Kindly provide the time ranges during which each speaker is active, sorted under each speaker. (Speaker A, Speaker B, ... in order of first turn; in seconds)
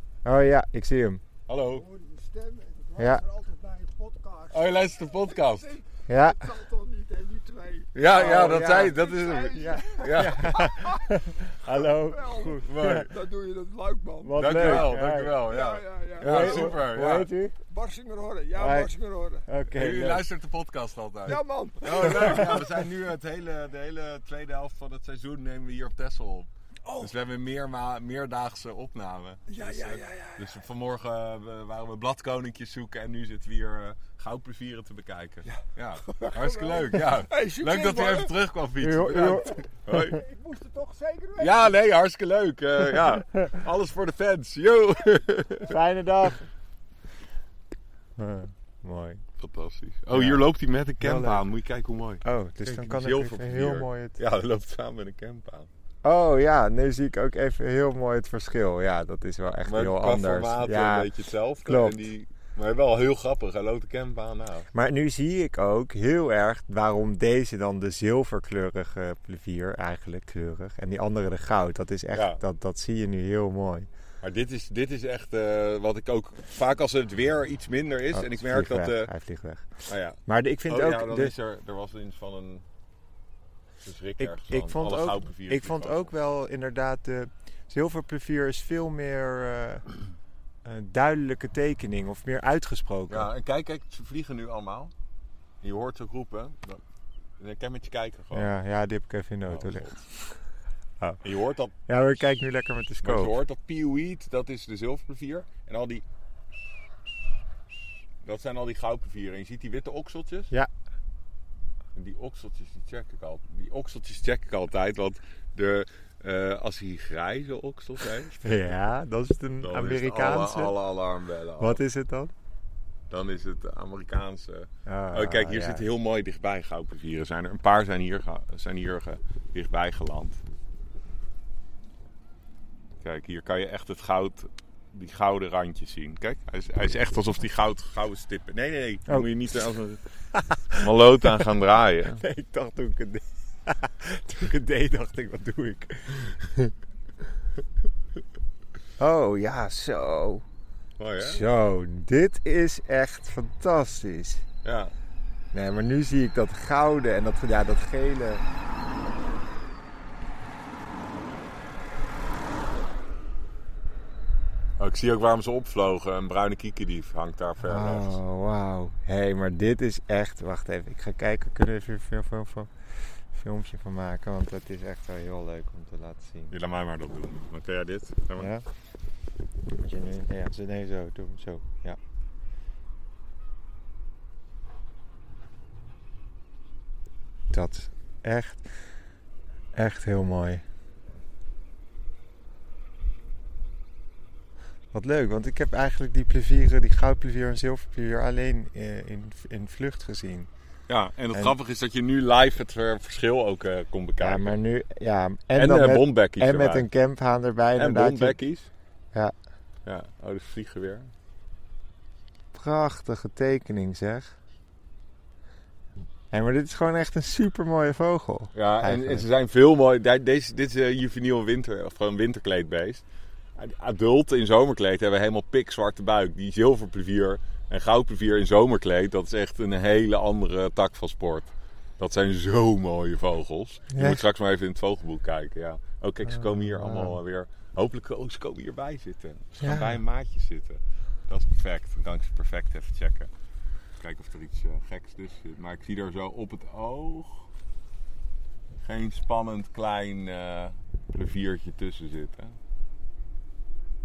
Speaker A: 0.2-1.2, 3.0-3.2, 6.1-6.5, 8.0-13.1, 14.2-15.4, 16.2-17.6, 18.6-18.9, 19.5-20.3, 21.9-22.7, 38.8-39.6, 45.7-46.4, 48.2-49.2, 50.1-50.4, 51.0-51.4, 52.2-54.2, 56.0-61.1, 61.6-62.0, 64.7-73.9, 78.1-81.3, 84.2-89.9, 90.6-93.3, 98.3-100.4, 101.9-103.3, 118.4-120.8, 121.6-122.3, 124.9-125.8, 140.3-141.5, 142.2-146.7, 149.0-150.4, 151.2-154.4, 155.5-158.4, 167.6-176.5, 178.4-178.7, 179.8-182.0, 187.5-188.7, 189.7-190.6, 194.9-200.5, 204.2-208.4, 212.5-214.3, 216.3-219.2, 233.9-234.2, 236.3-237.2, 239.6-240.0
Speaker B: 1.5-1.9, 4.5-5.8, 7.9-10.6, 12.6-13.1, 14.4-17.3, 19.7-40.2, 41.4-45.8, 49.4-55.7, 59.6-64.7, 72.1-72.4, 74.2-79.1, 79.9-82.7, 83.8-86.1, 93.1-94.9, 95.6-96.8, 97.4-98.5, 99.5-100.0, 101.2-101.8, 103.0-106.0, 108.2-110.5, 112.0-118.6, 119.6-121.8, 123.1-130.4, 133.0-140.0, 140.7-142.2, 151.0-151.4, 154.6-154.9, 164.8-168.2, 176.5-178.5, 200.9-204.6, 205.5-206.9, 207.8-208.7, 209.8-211.1, 218.5-223.1, 223.6-243.3, 244.0-247.5, 248.8-252.6
Speaker C: 1.7-16.9, 17.7-19.5, 21.3-22.7, 26.8-27.1, 29.5-30.6, 35.5-38.3, 39.9-41.8